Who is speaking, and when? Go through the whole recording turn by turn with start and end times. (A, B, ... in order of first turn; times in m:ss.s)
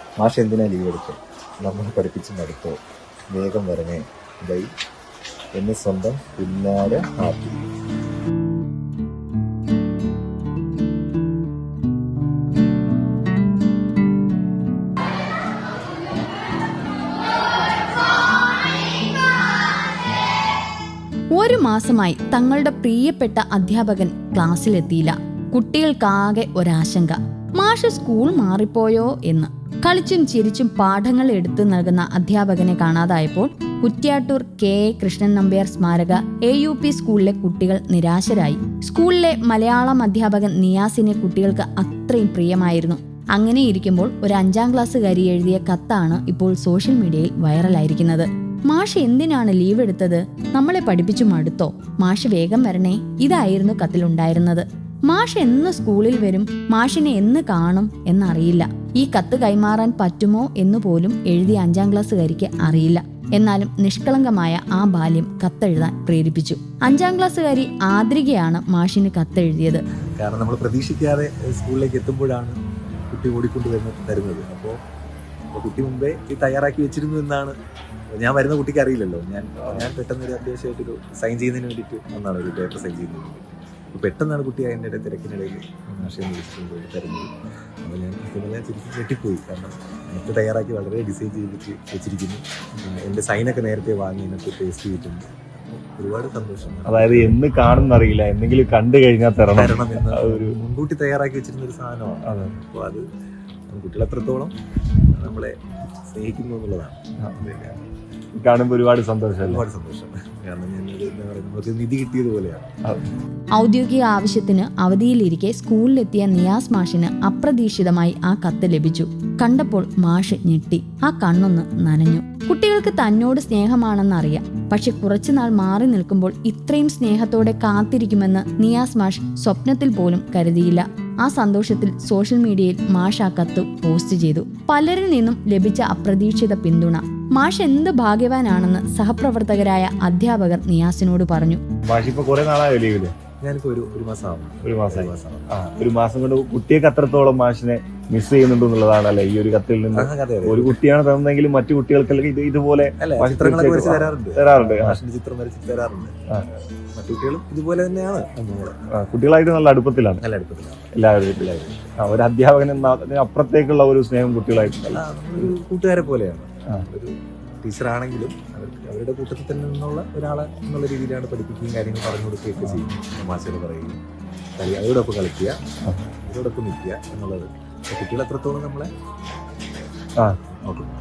0:00.2-0:02.8 A
0:03.3-0:04.7 A
0:05.5-0:07.6 A
0:21.3-1:09.8 B
1:10.2-1:12.6 A
1:13.1-1:14.8 A
1:15.5-1:17.5 A
1:18.1-1:27.3 A
1:19.6-1:20.0 C
1:27.8-1:37.4 A
1:36.8-1:40.6 C
1:39.5-1:43.0 A
1:42.2-1:42.6 C
1:43.7-1:44.5 A
1:45.1-1:45.6 A
1:46.1-1:47.8 A
1:47.2-1:47.7 C
1:48.4-1:49.6 C
1:49.4-1:52.7 A
1:53.5-2:21.6 B
2:21.9-2:23.1 C
2:23.4-2:25.6 A
2:24.6-2:35.0 C
2:29.9-2:30.8 A
2:33.0-2:36.1 A
2:36.9-2:38.8 A
2:38.9-2:40.2 C
2:40.2-2:42.0 A
2:40.9-2:45.5 C
2:44.9-2:54.0 A
2:54.6-2:55.6 A
2:56.2-2:58.9 A
3:00.6-3:00.9 A